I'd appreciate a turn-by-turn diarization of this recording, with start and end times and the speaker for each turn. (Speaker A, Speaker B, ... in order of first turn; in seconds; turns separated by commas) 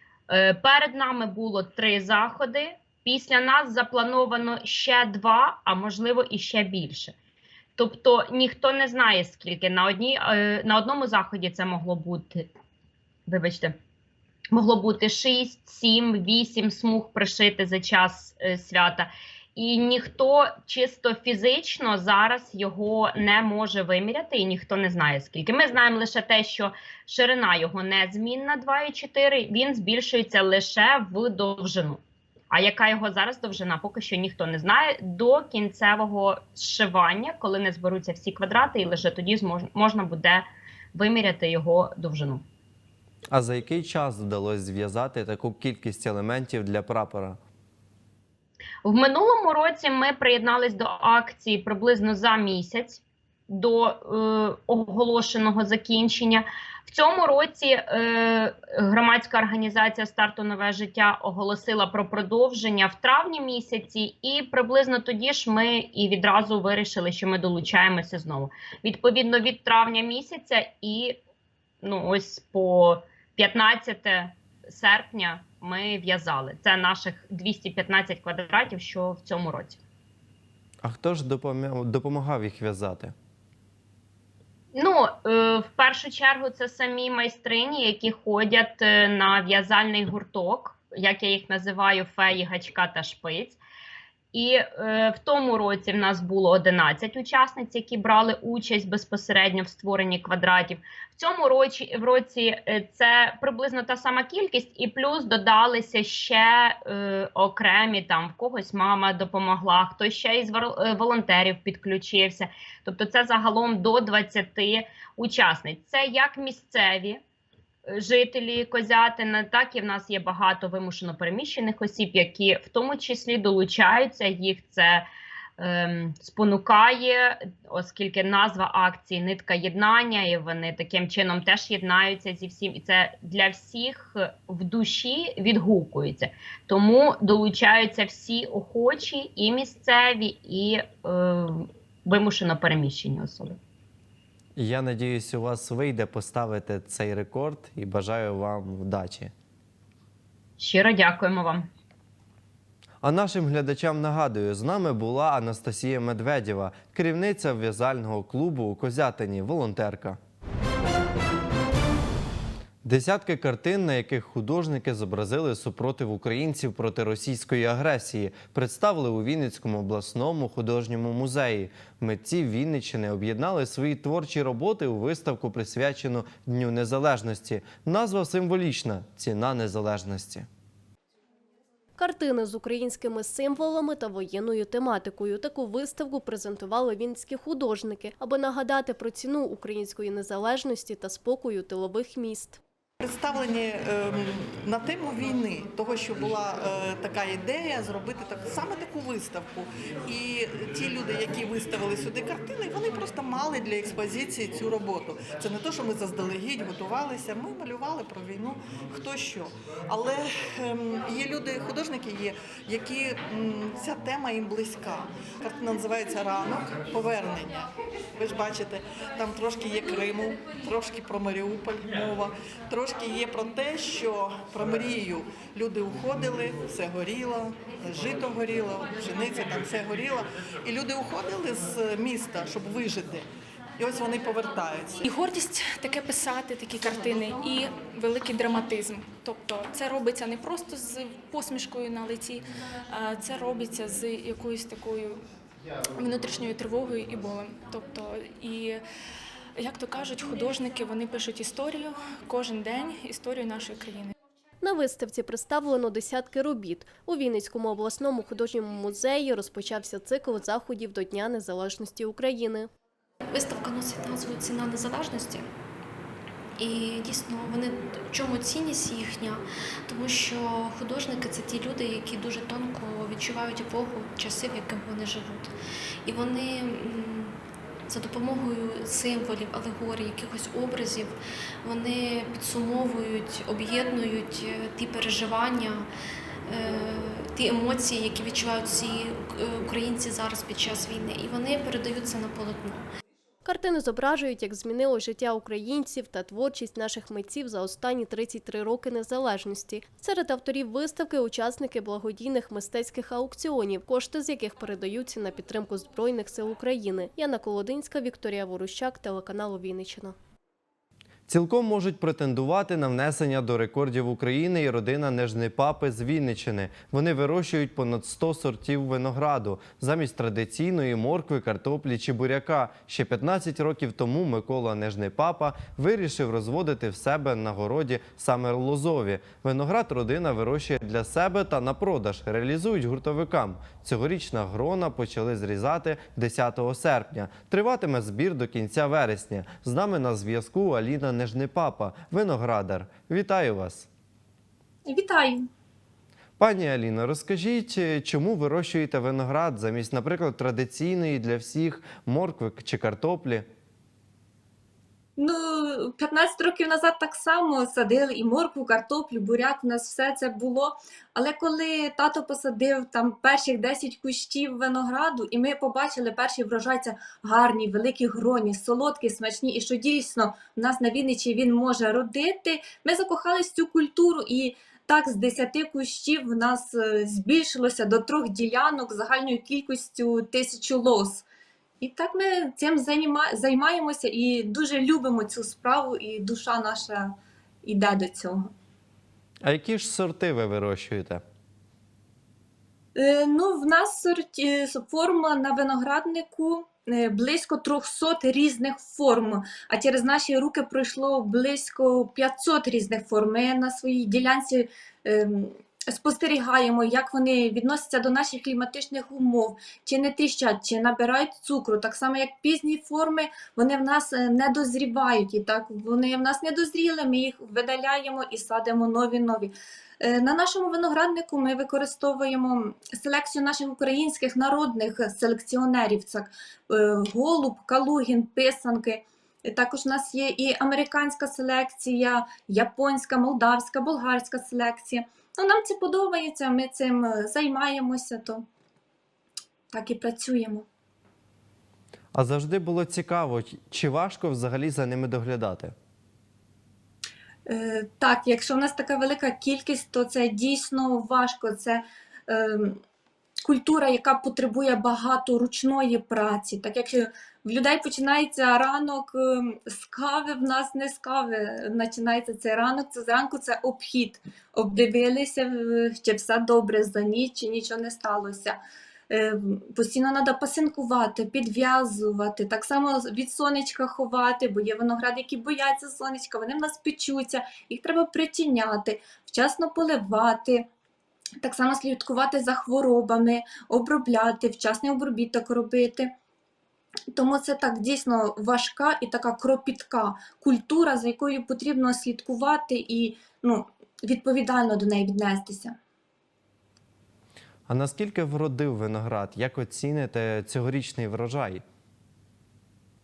Speaker A: 0.3-7.1, Speaker A: 7.8-12.5, Speaker A: 13.3-13.8, Speaker A: 14.5-42.4, Speaker B: 43.3-47.4, Speaker A: 48.8-71.2, Speaker A: 71.8-79.8, Speaker B: 80.8-83.1, Speaker A: 84.7-93.6, Speaker A: 94.3-117.2, Speaker A: 117.9-125.0, Speaker A: 125.6-143.6, Speaker B: 144.6-149.3, Speaker A: 150.6-151.7, Speaker B: 153.0-160.2, Speaker B: 162.8-180.5, Speaker C: 182.0-192.6, Speaker D: 193.0-217.6, Speaker D: 218.2-233.2, Speaker D: 233.8-235.0, Speaker E: 235.0-245.2, Speaker E: 245.9-248.8, Speaker E: 249.6-254.1, Speaker C: 254.6-262.7, Speaker F: 263.2-265.4, Speaker F: 266.6-275.5, Speaker F: 276.0-277.3, Speaker F: 277.9-285.9, Speaker F: 286.4-292.8, Speaker C: 293.4-310.1, Speaker B: 311.3-343.9, Speaker G: 344.9-345.4, Speaker B: 346.4-353.4, Speaker G: 355.2-381.2, Speaker G: 381.8-387.1, Speaker G: 387.6-388.5, Speaker B: 389.4-391.2, Speaker G: 392.9-438.4, Speaker G: 439.7-440.6, Speaker B: 442.1-445.7, Speaker G: 447.5-452.8, Speaker G: 453.4-468.6, Speaker G: 469.1-480.6, Speaker G: 481.4-486.1, Speaker G: 487.1-495.7, Speaker B: 497.7-501.6